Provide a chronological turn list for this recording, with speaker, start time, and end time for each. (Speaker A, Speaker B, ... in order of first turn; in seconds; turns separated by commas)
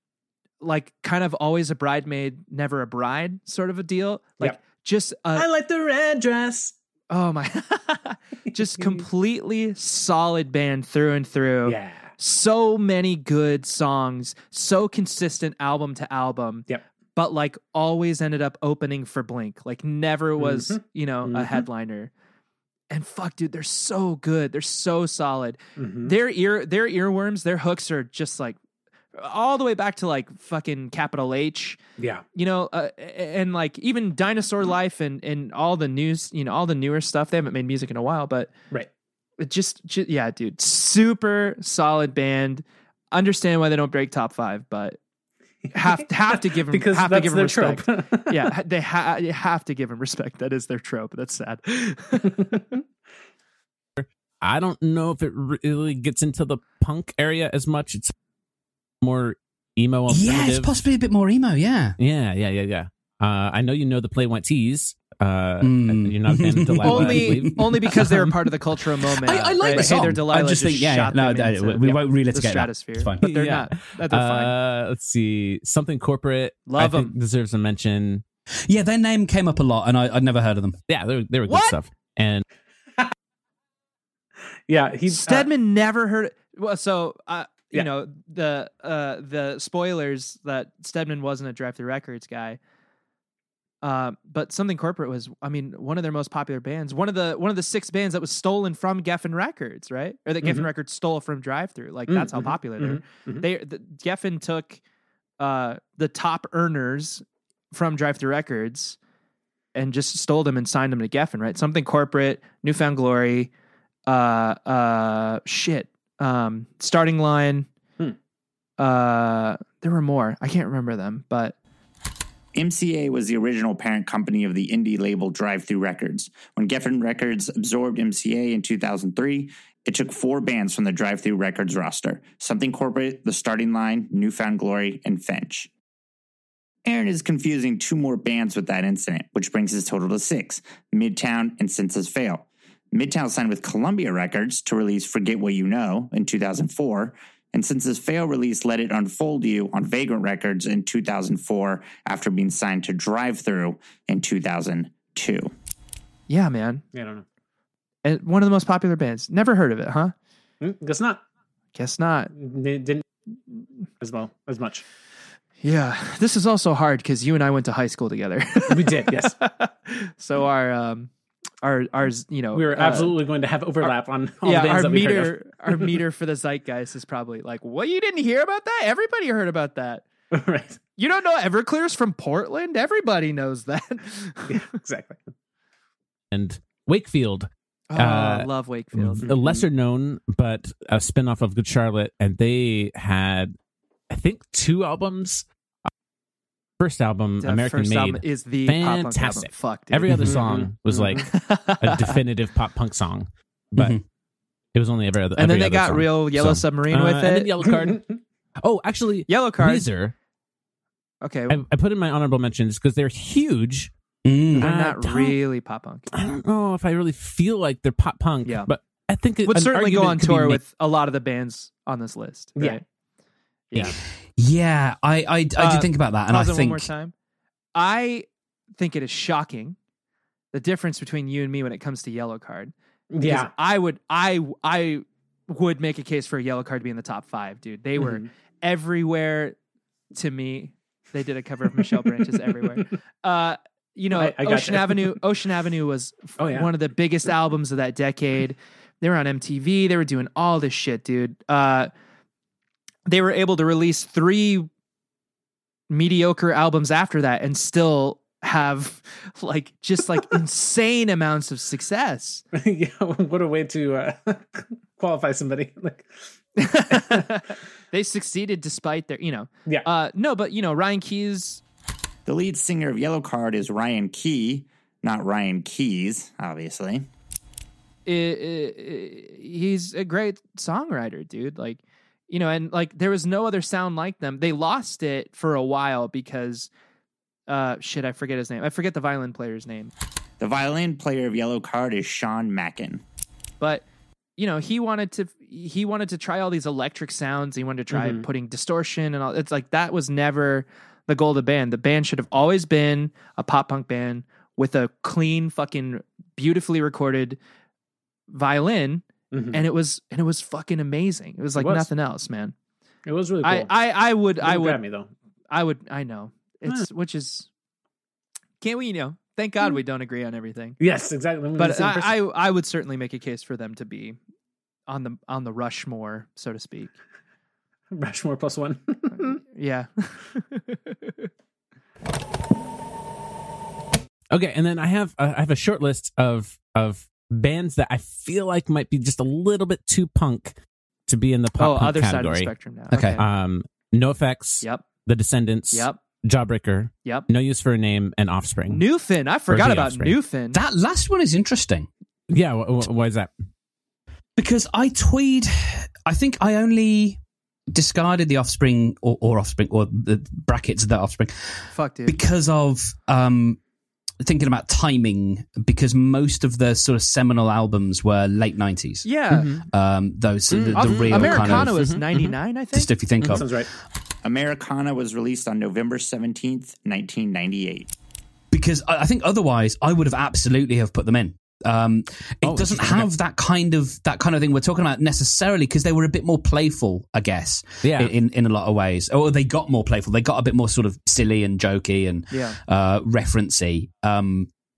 Speaker A: 0.6-5.5, Speaker B: 5.3-6.7, Speaker A: 7.1-22.1, Speaker B: 11.6-12.1, Speaker B: 20.4-21.6, Speaker A: 22.9-28.6, Speaker B: 25.8-26.1, Speaker A: 29.1-31.8, Speaker B: 32.0-32.2, Speaker A: 32.3-38.5, Speaker A: 39.4-45.0, Speaker B: 45.7-48.5, Speaker A: 45.7-52.6, Speaker C: 54.0-58.1, Speaker C: 59.0-60.7, Speaker D: 60.1-62.0, Speaker C: 62.0-68.1, Speaker D: 65.6-68.3, Speaker A: 66.8-74.5, Speaker D: 69.1-73.2, Speaker C: 73.2-78.2, Speaker A: 76.7-77.1, Speaker D: 78.7-80.8, Speaker C: 80.9-82.4, Speaker A: 81.5-81.8, Speaker B: 84.7-85.5, Speaker A: 85.1-92.6, Speaker A: 93.8-104.8, Speaker B: 100.4-100.7, Speaker B: 102.1-103.5, Speaker A: 105.4-109.0, Speaker A: 109.7-113.5, Speaker A: 114.0-117.7, Speaker A: 118.8-121.5, Speaker E: 122.5-135.7, Speaker E: 136.8-155.5, Speaker A: 156.3-156.8, Speaker B: 156.9-157.2, Speaker A: 158.0-160.1, Speaker B: 160.6-161.2, Speaker A: 161.7-162.3, Speaker B: 162.3-163.0, Speaker B: 164.0-164.8, Speaker A: 165.6-171.1, Speaker B: 168.7-169.3, Speaker A: 171.6-173.2, Speaker B: 172.5-176.0, Speaker A: 173.8-180.1, Speaker B: 180.3-180.8, Speaker A: 181.0-184.6, Speaker B: 184.5-185.3, Speaker C: 186.3-193.5, Speaker A: 187.9-189.3, Speaker B: 189.2-189.6, Speaker C: 194.1-195.5, Speaker C: 196.8-204.0, Speaker A: 197.4-200.2, Speaker B: 200.1-201.2, Speaker A: 201.2-202.2, Speaker D: 203.8-204.0, Speaker C: 204.7-208.0, Speaker A: 205.4-207.5, Speaker B: 207.7-208.2, Speaker C: 208.6-210.1, Speaker A: 209.3-209.8, Speaker A: 211.2-211.6, Speaker C: 211.5-213.9, Speaker D: 214.2-214.7, Speaker C: 214.6-215.4, Speaker A: 214.6-216.1, Speaker C: 216.1-220.6, Speaker A: 219.5-222.8, Speaker A: 223.7-224.0, Speaker D: 223.9-226.9, Speaker A: 225.6-227.1, Speaker A: 227.7-229.8, Speaker A: 230.5-239.6, Speaker B: 233.1-233.5, Speaker B: 238.0-238.3, Speaker A: 240.1-251.9, Speaker B: 241.8-242.9, Speaker B: 244.1-245.2, Speaker B: 246.4-246.7, Speaker A: 253.1-254.7, Speaker A: 255.9-262.4, Speaker B: 262.5-266.1, Speaker A: 266.6-271.6, Speaker B: 266.9-267.2, Speaker E: 272.2-277.1, Speaker A: 278.1-286.7, Speaker A: 287.5-289.9, Speaker E: 290.4-293.0, Speaker A: 293.6-293.8, Speaker A: 294.4-307.4, Speaker B: 297.9-298.2, Speaker A: 308.3-312.5, Speaker B: 309.3-309.6, Speaker B: 311.6-311.9, Speaker B: 313.1-313.7, Speaker A: 313.4-314.8, Speaker B: 314.4-315.1, Speaker A: 315.5-317.5, Speaker A: 318.6-320.8, Speaker B: 320.8-322.2, Speaker A: 321.6-324.2, Speaker A: 324.9-326.9, Speaker B: 327.9-329.4, Speaker A: 329.2-331.3, Speaker C: 334.3-340.5, Speaker C: 341.1-342.5, Speaker A: 341.6-343.2, Speaker D: 342.9-343.2, Speaker C: 343.2-348.8, Speaker A: 345.7-346.0, Speaker A: 348.7-350.6, Speaker C: 349.5-350.2, Speaker D: 350.5-351.9, Speaker C: 352.3-353.3, Speaker D: 354.4-357.2, Speaker D: 357.7-363.6, Speaker A: 361.7-362.2, Speaker D: 364.2-371.8, Speaker A: 369.0-369.5, Speaker C: 369.3-369.6, Speaker C: 370.5-372.4, Speaker A: 370.7-372.9, Speaker D: 372.7-373.5, Speaker B: 373.3-373.7, Speaker E: 374.2-377.9, Speaker D: 378.5-394.5, Speaker C: 382.4-383.1, Speaker C: 387.8-388.1, Speaker A: 392.3-392.6